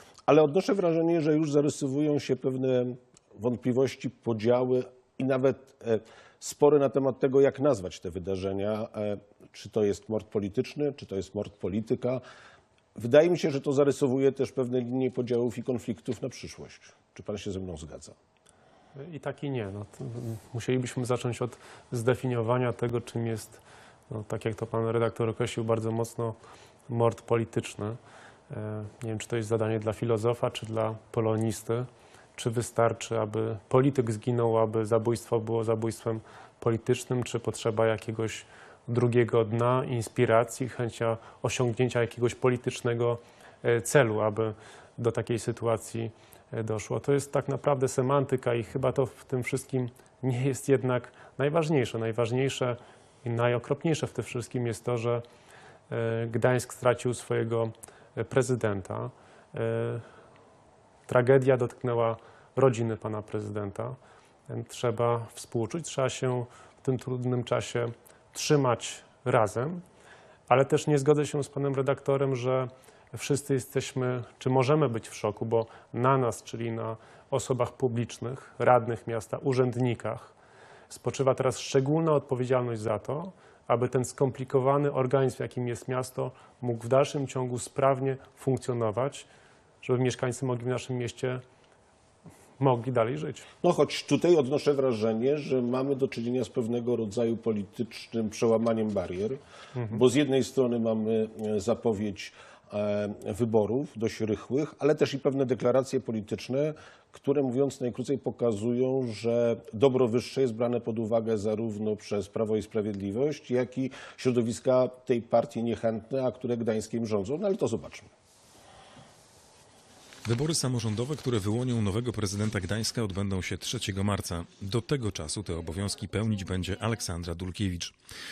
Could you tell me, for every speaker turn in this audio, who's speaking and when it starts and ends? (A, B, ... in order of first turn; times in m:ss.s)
0:00.3-0:12.2 A
0:13.0-0:18.2 A
0:19.0-0:26.4 B
0:26.9-0:28.0 B
0:28.5-0:55.2 B
0:55.9-1:00.0 B
1:01.1-1:04.0 B
1:04.5-1:09.8 B
1:10.5-1:20.3 B
1:20.9-1:29.3 B
1:29.8-1:31.4 B
1:32.6-1:33.5 B
1:33.6-1:39.4 A
1:39.7-1:40.0 B
1:39.9-1:58.1 A
2:00.2-2:07.9 C